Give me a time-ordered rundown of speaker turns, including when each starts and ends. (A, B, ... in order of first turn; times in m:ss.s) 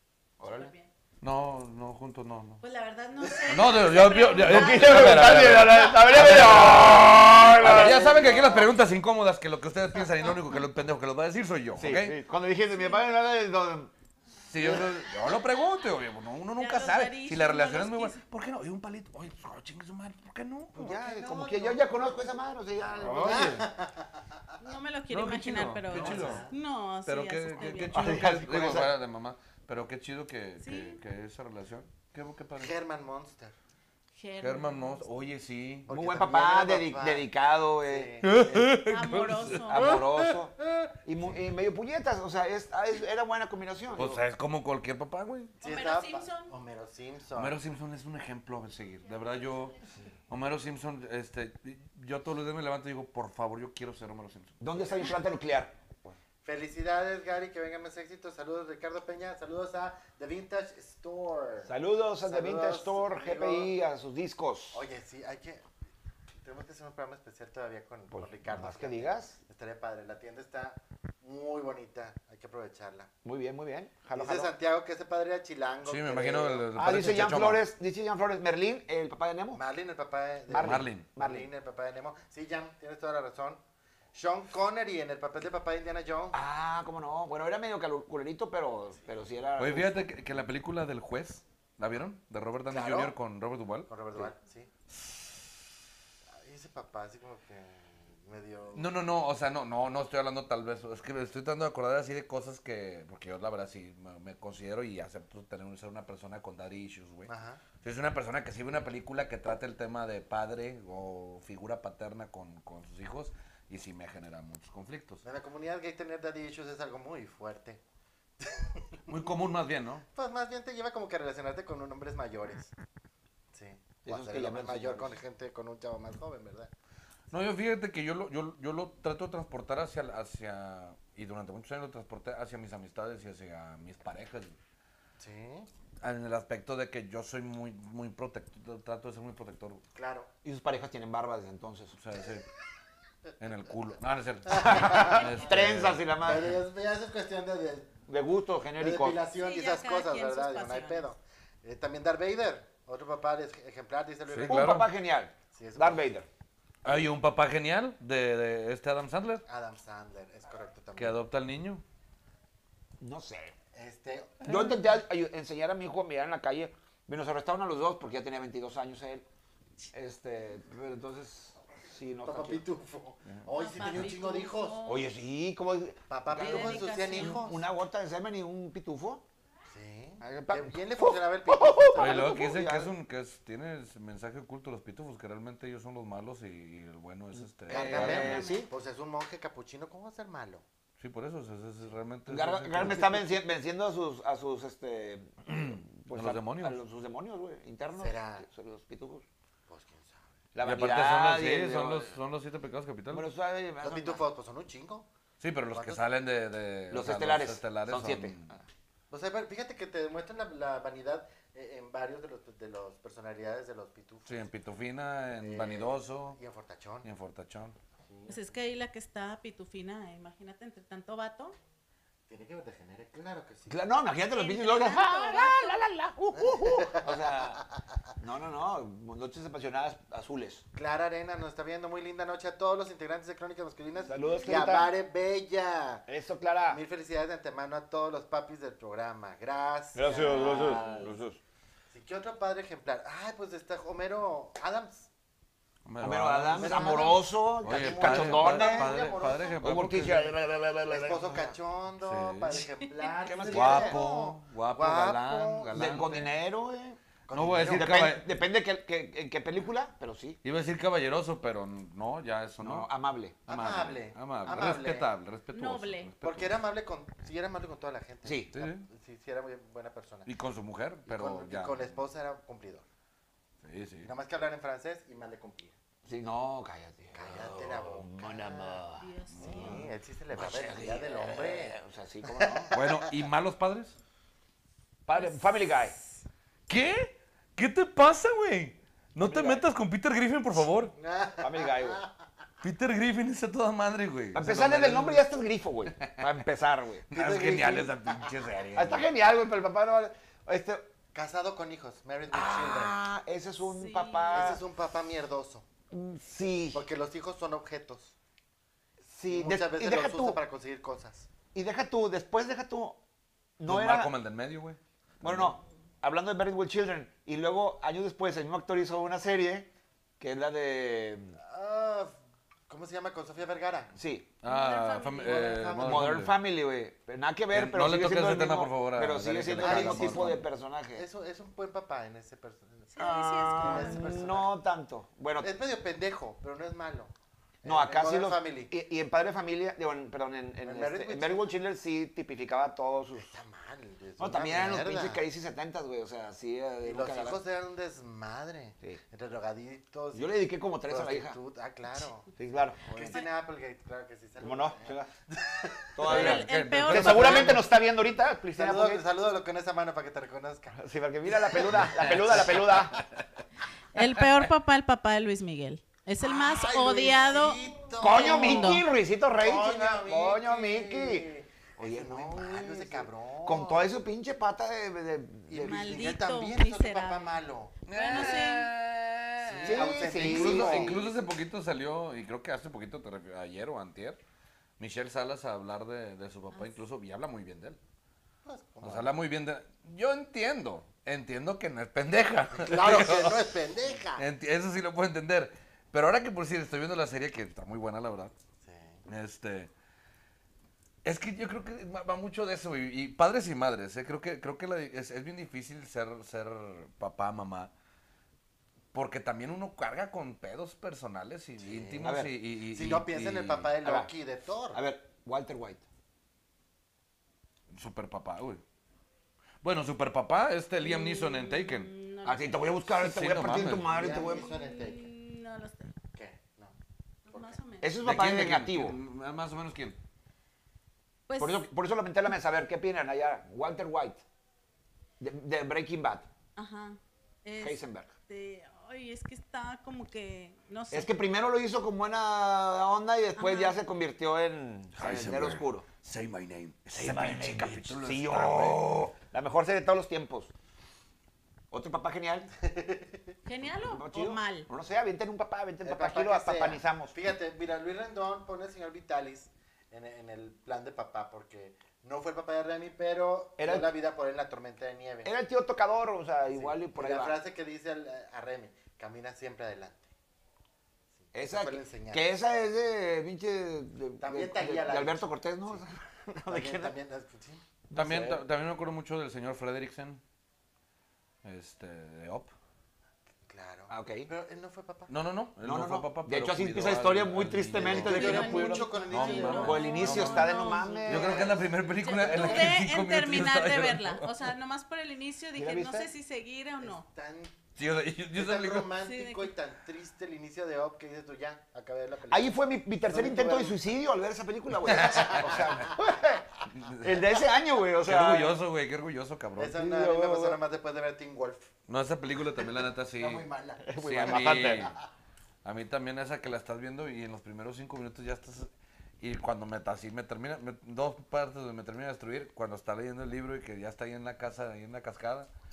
0:00.4-0:00.7 A
0:00.4-0:00.9 B
0:01.2-0:02.6 C
0:02.6-0:05.4 B
0:03.5-0:12.2 C
0:04.4-0:08.5 A
0:07.6-0:08.6 D
0:11.8-0:13.9 A
0:12.7-0:13.0 B
0:14.5-0:20.8 C
0:16.6-0:18.2 B
0:20.7-0:23.6 A
0:20.8-0:22.2 D
0:23.0-0:23.7 C
0:23.2-0:24.1 D
0:24.6-0:28.0 B
0:25.1-0:26.4 C
0:25.9-0:26.5 D
0:27.1-0:32.7 C
0:27.9-0:28.9 A
0:28.0-0:28.9 D
0:30.6-0:31.0 B
0:32.6-0:33.5 D
0:34.2-0:35.2 B
0:34.4-0:35.9 C
0:35.9-0:37.3 D
0:35.9-0:38.1 A
0:37.8-0:38.7 D
0:38.2-0:40.3 C
0:38.8-0:40.0 B
0:39.6-0:44.2 A
0:44.0-0:45.6 C
0:45.6-0:46.5 B
0:45.6-0:47.6 D
0:47.4-0:49.8 C
0:50.3-0:54.6 C
0:54.6-0:56.1 A
0:56.4-1:03.7 D
1:01.6-1:04.8 A
1:04.7-1:05.6 D
1:06.4-1:13.1 D
1:08.1-1:09.4 A
1:13.2-1:14.5 A
1:14.2-1:16.7 D
1:15.8-1:17.6 C
1:16.8-1:19.6 A
1:19.5-1:23.6 D
1:20.5-1:21.5 A
1:20.6-1:21.1 C
1:24.1-1:26.4 D
1:26.3-1:30.1 A
1:29.6-1:33.9 C
1:32.7-1:33.1 D
1:33.9-1:34.7 D
1:36.4-1:38.9 D
1:38.7-1:47.3 C
1:47.3-1:47.6 D
1:47.8-1:55.2 C
1:55.2-1:57.8 D
1:58.4-1:58.9 D
1:59.1-2:00.1 C
2:00.2-2:02.7 D
2:03.5-2:06.7 D
2:04.1-2:05.2 A
2:07.3-2:14.6 C
2:15.2-2:15.7 D
2:16.0-2:19.8 C
2:20.0-2:20.3 D
2:20.4-2:22.0 A
2:21.9-2:22.4 C
2:23.4-2:26.0 C
2:24.5-2:25.3 D
2:24.5-2:26.6 A
2:26.2-2:28.0 D
2:28.1-2:29.2 A
2:28.8-2:34.8 D
2:29.4-2:31.1 B
2:34.3-2:34.9 C
2:34.5-2:36.3 A
2:35.5-2:36.1 D
2:36.8-2:39.4 C
2:39.5-2:41.2 D
2:41.0-2:41.8 C
2:43.0-2:43.6 A
2:43.8-2:44.6 D
2:44.4-2:49.2 A
2:49.9-2:52.6 A
2:52.2-2:54.8 D
2:53.3-2:54.1 C
2:53.6-2:55.0 B
2:54.9-2:59.2 A
2:56.1-2:57.6 D
2:56.3-2:57.5 B
2:59.7-3:02.2 D
3:00.2-3:02.9 A
3:02.0-3:08.4 C
3:07.4-3:08.7 A
3:07.7-3:10.6 D
3:07.9-3:08.7 B
3:11.0-3:13.2 C
3:12.3-3:19.2 A
3:15.5-3:16.8 C
3:18.0-3:18.4 D
3:19.7-3:20.3 D
3:20.5-3:22.2 A
3:20.6-3:23.3 C
3:23.1-3:24.2 A
3:23.8-3:25.1 D
3:25.4-3:28.6 C
3:25.7-3:26.0 D
3:26.9-3:28.6 A
3:29.1-3:34.5 D
3:34.3-3:36.4 C
3:35.4-3:37.1 D
3:37.0-3:37.8 C
3:38.1-3:38.4 D
3:38.3-3:41.6 B
3:42.3-3:43.8 D
3:43.7-3:47.6 A
3:44.3-3:45.8 B
3:46.4-3:47.2 D
3:48.2-3:50.6 A
3:50.8-3:56.0 D
3:54.1-3:54.9 A
3:56.1-3:56.8 A
3:56.7-4:01.2 D
3:59.9-4:01.4 A
4:00.0-4:01.1 B
4:01.9-4:05.1 D
4:05.9-4:10.3 C
4:06.0-4:09.0 A
4:06.5-4:09.8 D
4:09.6-4:11.6 A
4:10.9-4:16.0 D
4:12.0-4:12.7 C
4:13.2-4:14.0 A
4:13.5-4:16.3 C
4:15.7-4:17.0 A
4:17.3-4:17.9 D
4:17.3-4:18.3 C
4:17.6-4:20.4 A
4:20.4-4:22.9 C
4:22.6-4:23.4 A
4:23.5-4:25.1 D
4:23.5-4:26.6 C
4:25.5-4:26.1 B
4:26.2-4:30.3 D
4:28.2-4:28.5 A
4:28.5-4:28.9 C
4:30.2-4:32.0 C
4:31.1-4:32.8 D
4:33.6-4:34.1 C
4:34.0-4:35.8 D
4:36.0-4:42.8 A
4:37.1-4:38.8 D
4:39.0-4:39.8 B
4:39.4-4:39.8 C
4:39.4-4:41.8 D
4:42.3-4:43.0 D
4:42.7-4:44.0 C
4:45.1-4:46.0 A
4:45.1-4:46.2 B
4:46.7-4:50.9 C
4:49.2-4:49.7 A
4:50.9-4:52.1 D
4:51.4-4:52.0 A
4:52.6-4:55.2 C
4:54.3-4:57.1 A
4:55.9-4:56.2 C
4:57.1-4:59.1 C
4:57.1-4:58.3 D
4:58.8-5:00.9 A
5:01.1-5:03.0 D
5:02.3-5:04.6 A
5:03.6-5:04.6 B
5:04.3-5:05.6 D
5:05.9-5:06.8 A
5:06.7-5:08.2 D
5:09.0-5:10.4 A
5:09.3-5:11.3 D
5:11.5-5:13.0 A
5:13.6-5:14.1 A
5:13.7-5:15.6 C
5:15.2-5:21.4 A
5:21.4-5:22.2 D
5:22.7-5:24.0 D
5:24.0-5:24.3 A
5:24.4-5:26.4 C
5:24.4-5:25.7 B
5:25.2-5:26.1 D
5:25.8-5:31.1 A
5:27.5-5:30.4 C
5:29.6-5:30.4 D
5:31.0-5:32.9 D
5:32.9-5:34.2 B
5:33.0-5:35.5 A
5:33.5-5:34.5 D
5:35.4-5:37.1 D
5:37.6-5:38.7 D
5:37.6-5:43.3 A
5:40.6-5:41.5 D
5:43.2-5:45.2 D
5:44.2-5:47.4 A
5:46.8-5:52.3 D
5:50.1-5:51.4 A
5:52.4-5:53.2 A
5:52.9-5:56.0 D
5:54.4-5:55.1 A
5:56.0-5:59.0 A
5:56.0-5:57.6 C
5:56.0-5:57.6 B
5:58.6-6:02.4 D
6:00.7-6:03.0 A
6:01.8-6:03.2 C
6:03.9-6:08.8 B
6:06.2-6:13.9 D
6:08.0-6:16.2 A
6:15.5-6:18.3 D
6:15.6-6:17.3 B
6:17.9-6:24.2 C
6:17.9-6:18.7 B
6:19.5-6:21.1 D
6:19.6-6:21.1 A
6:24.8-6:27.8 C
6:26.5-6:26.8 B
6:28.5-6:29.1 D
6:28.8-6:33.6 C
6:32.6-6:34.2 D
6:34.2-6:38.3 C
6:38.6-6:39.0 D
6:39.1-6:39.7 C
6:41.0-6:47.7 C
6:48.9-6:53.7 C
6:51.6-6:54.8 D
6:52.0-6:52.3 A
6:53.8-6:54.1 A
6:54.7-6:55.8 A
6:57.7-6:58.6 C
6:59.6-7:01.9 C
7:00.8-7:02.8 B
7:02.2-7:04.5 A
7:02.9-7:04.0 C
7:03.5-7:05.1 D
7:04.0-7:05.9 B
7:06.2-7:06.8 D
7:07.3-7:08.0 B
7:07.3-7:07.6 D
7:07.8-7:09.0 A
7:08.0-7:10.0 C
7:11.3-7:11.7 B
7:11.4-7:14.2 A
7:15.2-7:16.3 A
7:16.6-7:21.1 B
7:17.6-7:18.1 A
7:20.9-7:25.9 A
7:23.4-7:23.8 B
7:25.0-7:28.8 C
7:26.9-7:30.5 A
7:31.7-7:32.5 A
7:32.6-7:33.3 D
7:33.4-7:34.7 B
7:33.9-7:37.2 A
7:35.8-7:45.3 D
7:43.6-7:43.9 A
7:45.2-7:47.4 A
7:46.5-7:50.1 D
7:51.2-7:52.2 D
7:51.3-7:57.0 A
7:54.2-7:55.8 D
7:56.5-7:57.6 D
7:57.9-7:58.4 A
7:57.9-8:00.2 C
8:01.4-8:02.5 C
8:03.5-8:05.1 D
8:03.9-8:04.3 A
8:05.1-8:10.5 C
8:05.6-8:09.0 A
8:07.8-8:10.3 D
8:08.0-8:11.1 B
8:09.6-8:11.6 A
8:11.0-8:12.5 D
8:11.1-8:14.5 C
8:12.0-8:17.1 B
8:12.2-8:12.7 A
8:15.6-8:16.1 A
8:16.8-8:17.6 D
8:17.8-8:18.9 C
8:18.3-8:22.5 D
8:19.0-8:19.5 B
8:22.3-8:28.6 A
8:23.1-8:23.9 D
8:24.8-8:25.6 C
8:24.9-8:26.0 D
8:26.7-8:27.2 C
8:28.0-8:29.8 C
8:29.6-8:31.7 D
8:29.8-8:30.6 A
8:31.9-8:33.5 C
8:33.2-8:35.0 D
8:33.8-8:34.9 A
8:34.0-8:35.0 C
8:35.6-8:45.5 C